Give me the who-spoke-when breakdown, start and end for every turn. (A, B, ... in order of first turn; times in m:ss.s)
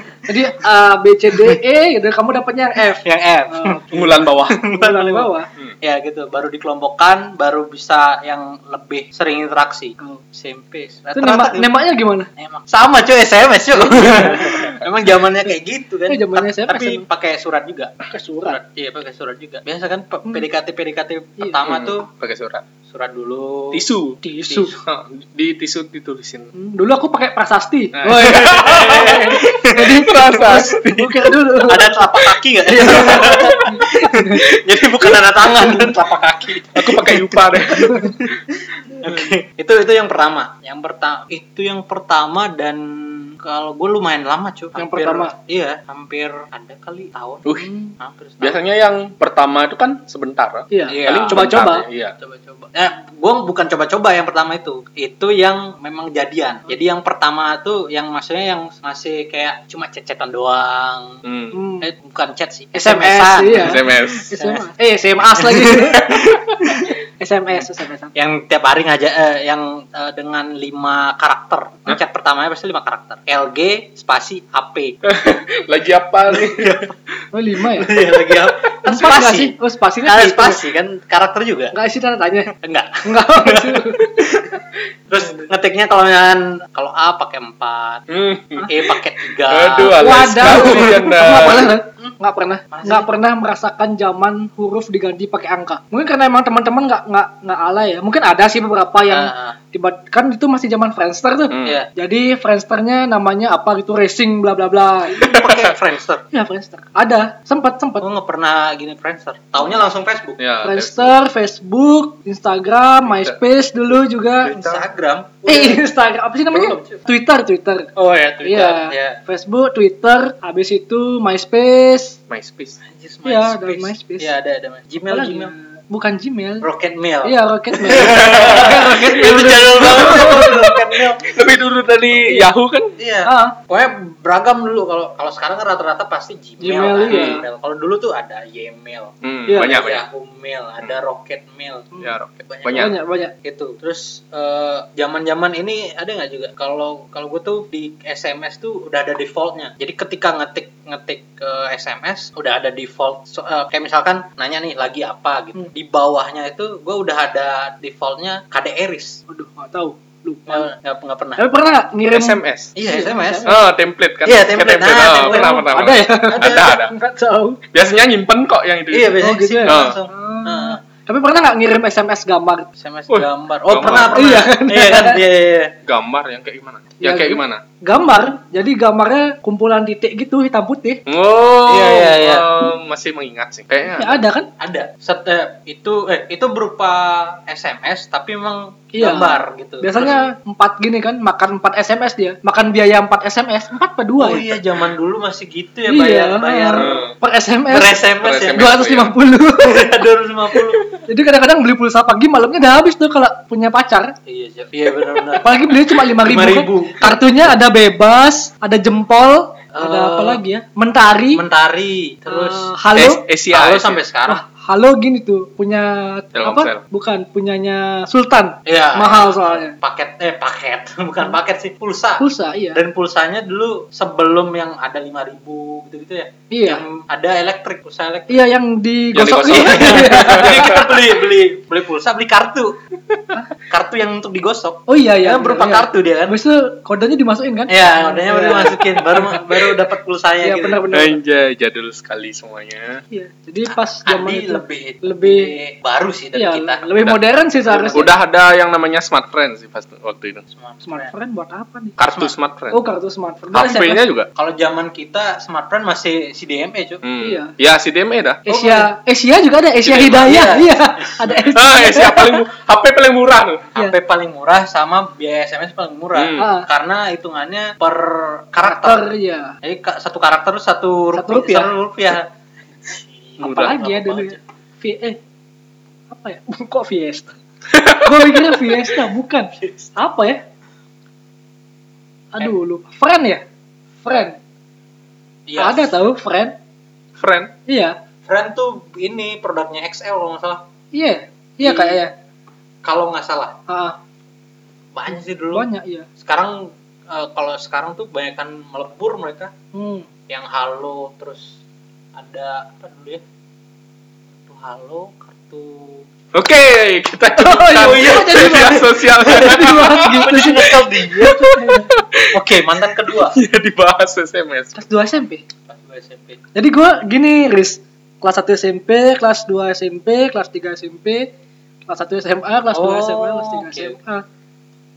0:00.3-0:03.9 A
0:03.0-0:11.7 B
0:03.9-0:04.6 C
0:04.7-0:05.5 A
0:11.2-0:12.3 A
0:12.4-0:17.9 B
0:14.0-0:14.3 A
0:16.1-0:17.1 A
0:18.0-0:18.6 A
0:18.4-0:22.1 B
0:21.6-0:22.6 C
0:22.9-0:23.8 B
0:23.7-0:24.2 C
0:24.2-0:24.7 A
0:24.5-0:24.8 B
0:24.8-0:26.5 C
0:26.6-0:31.9 A
0:28.0-0:31.4 C
0:28.2-0:30.0 B
0:31.6-0:48.6 B
0:32.7-0:34.4 A
0:32.7-0:33.8 C
0:36.7-0:38.3 C
0:44.8-0:45.4 A
0:47.6-0:47.9 A
0:48.4-0:52.2 C
0:50.7-0:51.9 A
0:50.9-0:51.5 B
0:52.2-1:01.2 B
1:01.2-1:01.6 C
1:01.5-1:01.9 A
1:01.8-1:04.7 B
1:02.7-1:06.1 A
1:03.5-1:04.4 C
1:05.4-1:06.9 B
1:05.9-1:06.8 C
1:07.2-1:08.1 A
1:08.2-1:15.0 B
1:15.0-1:16.8 C
1:16.3-1:16.9 B
1:17.3-1:18.0 A
1:17.6-1:21.7 B
1:18.8-1:20.6 A
1:21.7-1:22.5 A
1:22.5-1:24.6 B
1:23.0-1:24.3 A
1:25.1-1:28.0 B
1:28.1-1:28.7 C
1:28.7-1:31.0 B
1:29.4-1:31.7 C
1:30.0-1:45.3 A
1:32.7-1:33.1 B
1:39.1-1:39.6 B
1:41.5-1:41.8 C
1:41.6-1:41.9 B
1:45.1-1:46.2 B
1:45.3-1:45.6 C
1:46.3-1:48.1 A
1:48.0-1:50.4 B
1:50.4-1:51.2 C
1:50.6-1:54.6 A
1:53.1-1:53.4 C
1:54.4-1:54.8 C
1:54.4-1:55.9 B
1:55.5-1:57.9 A
1:56.5-1:57.0 B
1:58.0-1:59.2 B
1:58.4-2:02.2 A
2:02.3-2:02.8 C
2:02.8-2:05.5 B
2:03.2-2:04.3 A
2:05.1-2:06.7 A
2:06.6-2:11.4 B
2:07.2-2:10.5 A
2:08.0-2:12.9 C
2:13.0-2:21.9 B
2:13.2-2:13.6 A
2:16.6-2:17.4 A
2:17.1-2:17.4 C
2:19.2-2:20.0 C
2:19.5-2:19.8 A
2:22.0-2:23.0 C
2:22.5-2:39.2 B
2:22.8-2:23.3 A
2:39.3-2:40.7 A
2:40.5-2:41.4 B
2:41.4-2:43.7 A
2:42.1-2:42.8 C
2:42.8-2:43.6 B
2:43.5-2:46.9 C
2:44.2-2:45.7 B
2:45.2-2:47.6 A
2:46.3-2:46.8 B
2:47.7-2:50.0 C
2:48.9-2:50.8 B
2:49.2-2:52.7 A
2:52.8-2:55.8 B
2:53.1-2:54.4 C
2:53.8-2:55.2 A
2:55.8-2:57.6 C
2:57.0-3:01.0 A
3:01.1-3:04.2 C
3:01.7-3:02.5 B
3:03.9-3:04.5 A
3:04.6-3:10.2 B
3:08.9-3:14.5 A
3:10.0-3:10.3 C
3:14.2-3:17.1 B
3:15.9-3:18.0 A
3:16.8-3:17.2 C
3:17.7-3:18.8 B
3:18.2-3:19.2 C
3:18.5-3:19.9 A
3:19.6-3:20.8 B
3:21.0-3:24.2 A
3:24.3-3:27.2 B
3:25.4-3:31.4 A
3:29.7-3:30.4 B
3:31.3-3:32.7 B
3:32.3-3:33.2 A
3:33.0-3:34.0 C
3:33.5-3:34.4 B
3:34.3-3:39.8 A
3:36.4-3:36.8 C
3:38.7-3:48.5 B
3:42.2-3:42.8 A
3:46.5-3:46.8 A
3:48.3-3:50.8 A
3:49.1-3:51.0 C
3:49.5-3:52.8 B
3:53.7-3:56.4 B
3:54.9-3:59.4 A
3:57.7-4:00.8 B
4:00.4-4:01.2 A
4:00.9-4:03.0 C
4:03.1-4:05.5 A
4:03.7-4:06.9 B
4:06.4-4:08.1 A
4:07.7-4:08.1 B
4:07.9-4:10.4 C
4:10.5-4:11.1 B
4:10.8-4:12.0 A
4:12.0-4:12.8 C
4:12.7-4:14.0 A
4:13.5-4:14.3 C
4:14.4-4:17.0 B
4:17.0-4:18.5 C
4:17.2-4:17.5 A
4:18.5-4:22.4 A
4:18.5-4:18.9 B
4:19.9-4:20.4 C
4:19.9-4:21.3 B
4:21.5-4:23.7 C
4:23.7-4:29.1 B
4:26.2-4:26.5 C
4:26.4-4:26.7 A
4:28.6-4:29.6 A
4:29.6-4:32.3 B
4:31.1-4:31.7 A
4:32.8-4:34.4 B
4:33.4-4:33.8 C
4:33.4-4:35.2 A
4:36.1-4:37.4 A
4:37.7-4:38.8 C
4:37.9-4:40.4 A
4:42.3-4:43.4 A
4:44.0-4:44.4 A
4:45.5-4:46.0 B
4:45.6-4:46.6 A
4:47.2-4:47.5 C
4:47.7-4:48.0 A
4:48.3-4:50.6 B
4:50.9-4:52.1 A
4:51.6-4:52.0 B
4:52.8-4:53.6 B
4:53.7-4:54.0 A
4:54.9-4:55.7 B
4:55.5-4:56.1 A
4:56.2-4:59.5 B
4:59.7-5:00.1 A
5:00.3-5:01.6 B
5:02.1-5:03.2 B
5:04.5-5:06.1 B
5:06.3-5:12.4 C
5:07.4-5:11.9 A
5:07.8-5:11.5 B
5:12.3-5:13.4 B
5:13.2-5:14.8 C
5:14.8-5:15.4 A
5:15.7-5:16.4 B
5:16.6-5:21.3 A
5:21.9-5:24.2 A
5:22.7-5:24.0 B